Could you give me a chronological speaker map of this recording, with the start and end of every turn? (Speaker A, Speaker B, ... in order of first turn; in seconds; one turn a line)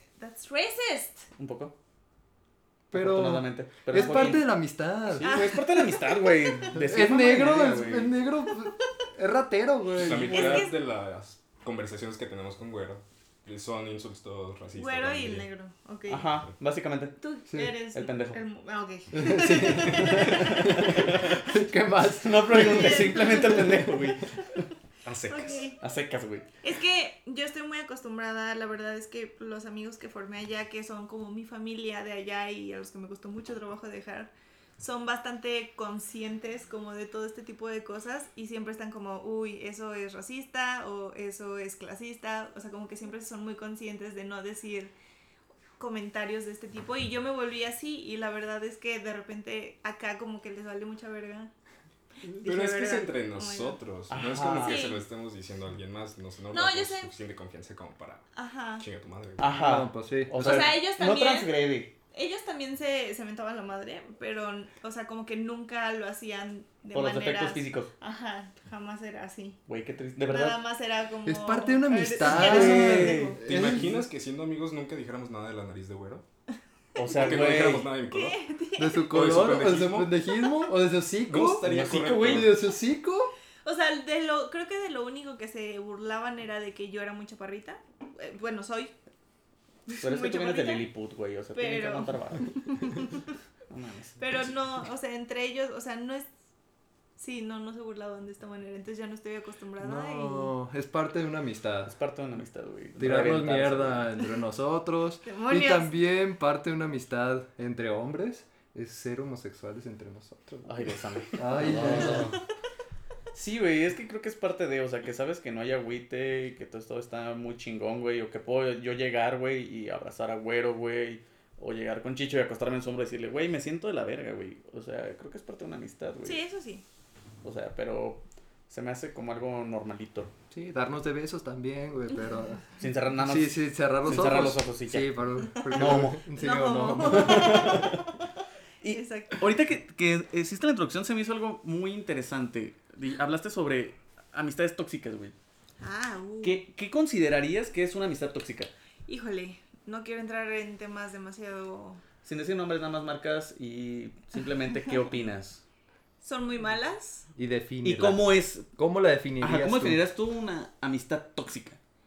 Speaker A: 0.2-1.3
Speaker B: 1.4-1.7
Speaker C: 2.9-5.4
Speaker B: 2.9-4.5
Speaker A: 4.0-4.4
Speaker B: 5.1-8.2
Speaker A: 5.2-6.7
Speaker C: 6.7-10.7
Speaker D: 9.9-15.5
Speaker A: 10.3-10.8
Speaker A: 14.8-16.3
Speaker B: 16.1-17.2
Speaker A: 17.2-21.1
Speaker B: 17.9-18.4
Speaker C: 19.1-23.9
Speaker B: 20.3-21.4
Speaker B: 22.1-24.7
Speaker A: 22.5-23.7
Speaker D: 25.0-25.7
Speaker A: 25.3-25.8
Speaker B: 25.8-26.5
Speaker A: 26.6-44.9
Speaker A: 45.8-51.5
Speaker A: 52.3-53.8
Speaker D: 52.4-58.2
Speaker B: 54.1-54.9
Speaker A: 54.6-55.0
Speaker A: 56.5-57.1
Speaker A: 58.4-58.8
Speaker D: 58.8-59.7
Speaker B: 59.4-61.9
Speaker C: 59.5-60.8
Speaker A: 60.4-61.5
Speaker A: 62.1-69.6
Speaker B: 66.9-67.9
Speaker B: 69.7-70.6
Speaker A: 70.2-73.4
Speaker C: 71.2-74.0
Speaker B: 72.1-73.4
Speaker D: 73.4-76.2
Speaker B: 77.0-77.9
Speaker D: 77.1-78.4
Speaker A: 78.1-79.1
Speaker C: 78.8-83.3
Speaker D: 79.1-80.2
Speaker D: 81.3-82.5
Speaker B: 81.7-82.5
Speaker A: 83.6-88.9
Speaker A: 89.9-90.9
Speaker B: 90.0-93.1
Speaker A: 91.5-93.3
Speaker B: 93.7-94.5
Speaker A: 94.2-96.3
Speaker A: 97.2-100.5
Speaker C: 99.8-101.9
Speaker B: 101.9-104.1
Speaker C: 103.0-110.8
Speaker A: 105.2-105.9
Speaker B: 110.7-112.4
Speaker C: 111.3-112.4
Speaker B: 113.3-126.4
Speaker A: 126.2-126.8
Speaker B: 127.4-130.3
Speaker C: 130.5-132.7
Speaker B: 132.8-136.2
Speaker C: 133.2-137.9
Speaker A: 136.4-138.0
Speaker B: 137.1-138.1
Speaker B: 138.8-145.3
Speaker A: 138.9-139.4
Speaker A: 145.8-146.6
Speaker B: 146.4-148.7
Speaker A: 149.1-152.0
Speaker B: 152.2-155.6
Speaker A: 156.2-157.3
Speaker C: 157.4-160.0
Speaker B: 157.8-158.7
Speaker B: 159.4-161.8